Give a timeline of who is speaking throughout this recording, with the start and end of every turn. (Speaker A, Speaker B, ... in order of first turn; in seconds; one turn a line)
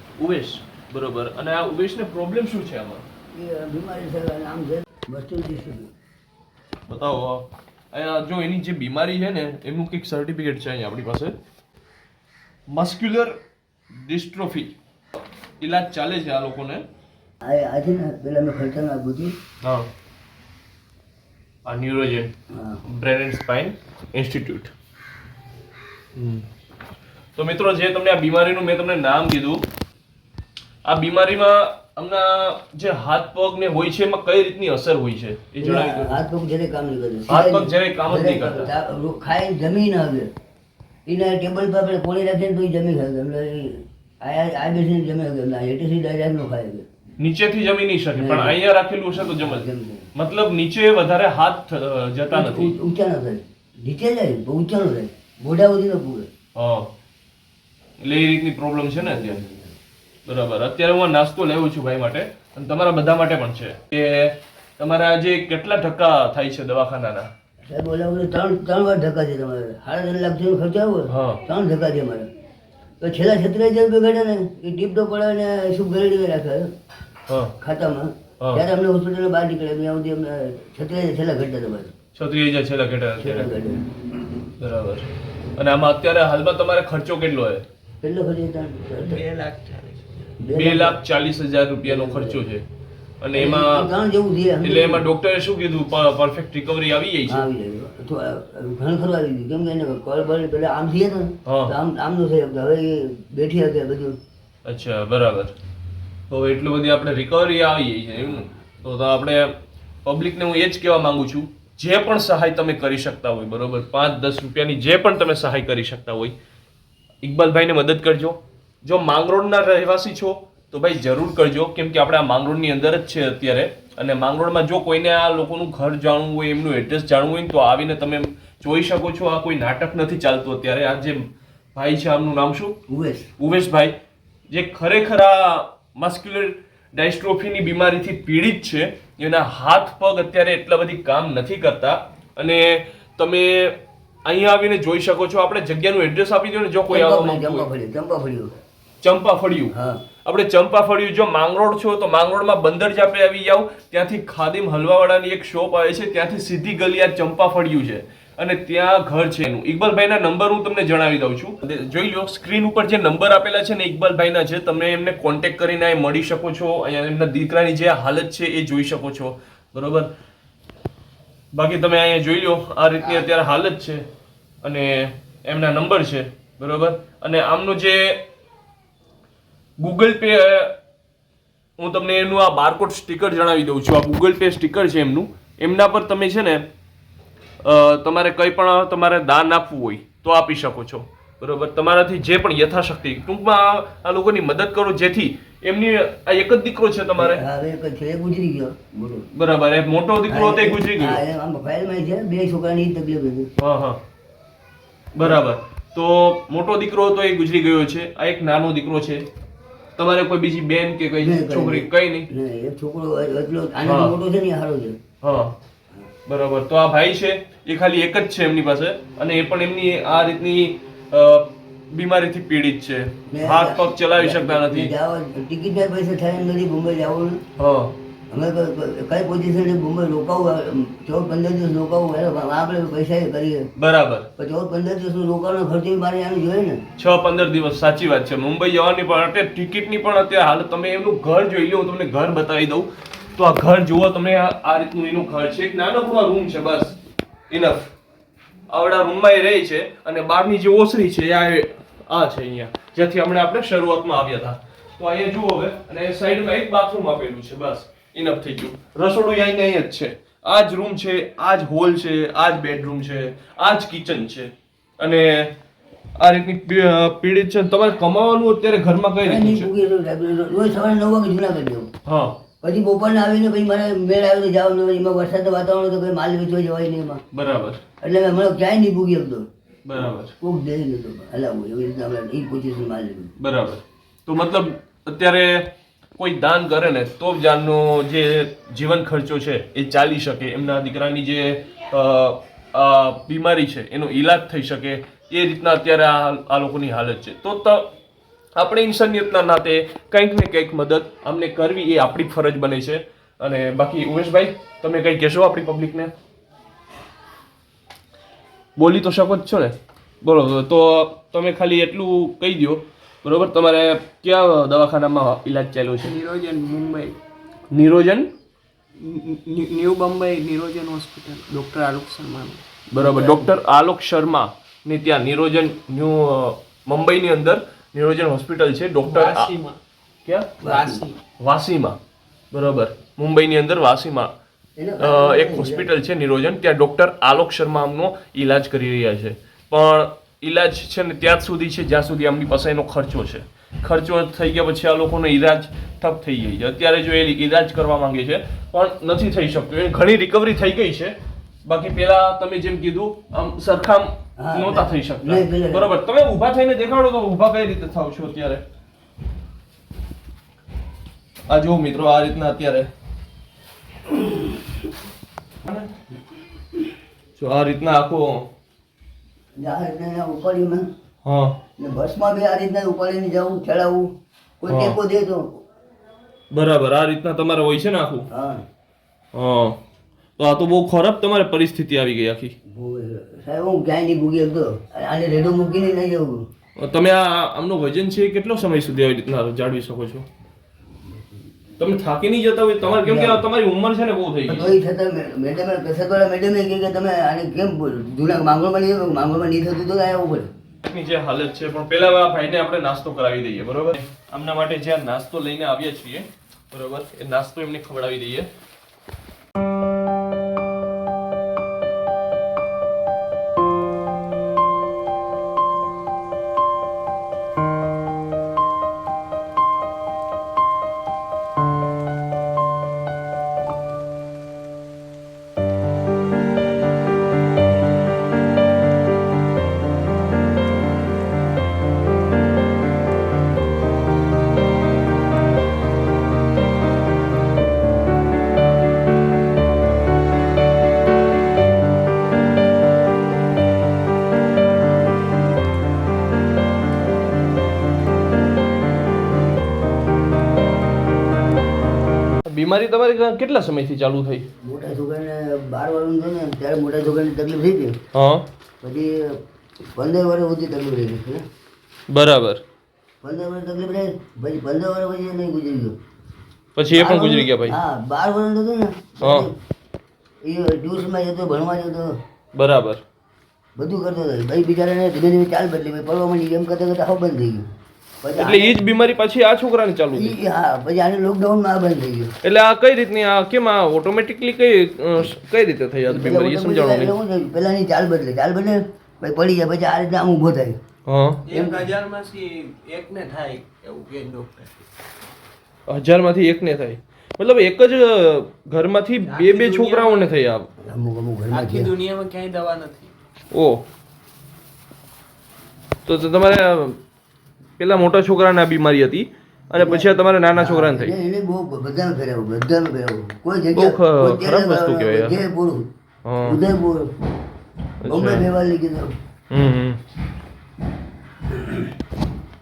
Speaker A: 0.2-3.0
Speaker B: 3.3-5.9
Speaker A: 6.9-11.3
Speaker A: 12.7-13.4
Speaker A: 13.9-14.7
Speaker A: 15.6-16.8
Speaker B: 17.4-19.3
Speaker A: 19.6-19.9
Speaker A: 21.6-22.3
Speaker B: 22.5-22.8
Speaker A: 22.8-24.7
Speaker A: 26.1-26.4
Speaker A: 27.4-29.6
Speaker A: 30.8-36.1
Speaker B: 35.6-40.3
Speaker A: 37.3-38.7
Speaker B: 41.0-46.9
Speaker A: 47.2-52.8
Speaker B: 48.1-48.6
Speaker B: 49.1-50.1
Speaker B: 52.3-56.3
Speaker A: 56.5-56.9
Speaker A: 58.0-59.4
Speaker B: 59.0-59.7
Speaker A: 60.2-67.3
Speaker B: 67.7-72.3
Speaker A: 71.1-71.4
Speaker B: 73.0-76.7
Speaker A: 77.3-77.6
Speaker B: 77.6-81.9
Speaker A: 78.4-78.7
Speaker A: 82.1-83.5
Speaker B: 83.2-83.9
Speaker A: 84.6-87.7
Speaker B: 88.0-89.2
Speaker C: 89.0-90.1
Speaker B: 90.4-91.0
Speaker A: 90.5-92.6
Speaker B: 91.8-92.4
Speaker A: 93.2-93.9
Speaker B: 93.3-95.0
Speaker A: 94.6-97.5
Speaker B: 97.3-104.2
Speaker A: 101.4-101.7
Speaker A: 104.6-105.5
Speaker A: 106.3-116.3
Speaker A: 117.2-132.8
Speaker B: 132.9-133.3
Speaker A: 133.4-133.9
Speaker A: 134.5-147.7
Speaker B: 146.9-148.6
Speaker A: 149.0-170.1
Speaker B: 149.7-150.0
Speaker A: 171.5-174.0
Speaker B: 173.0-173.3
Speaker A: 174.6-178.3
Speaker A: 179.8-180.8
Speaker A: 181.8-186.7
Speaker A: 187.6-197.4
Speaker B: 197.2-199.3
Speaker A: 199.3-201.2
Speaker B: 200.3-203.5
Speaker A: 203.6-204.0
Speaker A: 205.1-209.2
Speaker A: 209.9-212.3
Speaker B: 211.2-215.0
Speaker A: 213.8-214.1
Speaker A: 215.2-215.6
Speaker A: 216.2-224.9
Speaker B: 223.3-227.4
Speaker A: 227.6-228.0
Speaker B: 228.3-233.7
Speaker A: 233.8-234.3
Speaker B: 234.4-236.8
Speaker A: 236.9-246.9
Speaker A: 247.5-247.9
Speaker A: 248.7-265.6
Speaker A: 266.2-269.7
Speaker B: 269.2-271.9
Speaker A: 272.0-272.4
Speaker B: 272.6-277.2
Speaker A: 277.3-277.8
Speaker B: 278.0-279.5
Speaker A: 279.8-280.4
Speaker B: 280.4-283.3
Speaker A: 283.4-297.9
Speaker A: 298.6-306.1
Speaker A: 308.8-316.2
Speaker C: 316.0-317.2
Speaker A: 317.7-318.3
Speaker C: 319.0-322.6
Speaker A: 322.9-329.6
Speaker C: 329.0-329.8
Speaker A: 330.2-330.6
Speaker C: 330.6-331.2
Speaker B: 330.6-331.0
Speaker A: 331.4-332.0
Speaker A: 332.5-334.3
Speaker B: 334.8-335.9
Speaker A: 335.0-358.6
Speaker B: 354.4-355.9
Speaker A: 361.5-362.9
Speaker B: 364.1-364.4
Speaker A: 365.6-365.9
Speaker A: 367.4-368.5
Speaker B: 369.6-370.9
Speaker A: 371.2-371.6
Speaker B: 371.8-374.1
Speaker B: 374.6-375.5
Speaker A: 374.7-375.0
Speaker A: 376.5-378.3
Speaker B: 378.3-378.6
Speaker A: 379.3-379.8
Speaker A: 380.4-382.5
Speaker B: 382.7-386.4
Speaker A: 386.8-390.3
Speaker A: 391.8-394.8
Speaker B: 392.8-393.4
Speaker B: 394.5-400.5
Speaker A: 400.8-408.5
Speaker A: 452.4-454.5
Speaker B: 454.6-458.0
Speaker A: 458.1-458.5
Speaker B: 458.8-459.4
Speaker B: 459.9-461.4
Speaker A: 462.1-462.6
Speaker B: 463.2-465.9
Speaker A: 466.8-467.8
Speaker B: 466.9-469.5
Speaker A: 469.2-469.5
Speaker B: 470.4-472.1
Speaker A: 472.5-473.0
Speaker B: 473.8-477.7
Speaker B: 478.2-478.8
Speaker A: 478.4-480.4
Speaker B: 480.1-482.3
Speaker A: 482.4-487.2
Speaker B: 486.1-490.8
Speaker A: 491.1-491.5
Speaker C: 491.4-494.9
Speaker B: 491.5-491.8
Speaker A: 495.9-500.7
Speaker C: 499.2-500.4
Speaker B: 500.8-501.9
Speaker C: 501.5-503.1
Speaker A: 503.5-503.8
Speaker A: 506.0-507.0
Speaker A: 507.8-511.1
Speaker B: 509.8-515.9
Speaker A: 513.7-515.4
Speaker A: 516.2-516.6
Speaker B: 516.4-517.1
Speaker A: 518.0-518.5
Speaker B: 518.0-519.1
Speaker A: 519.5-520.0
Speaker B: 521.5-521.9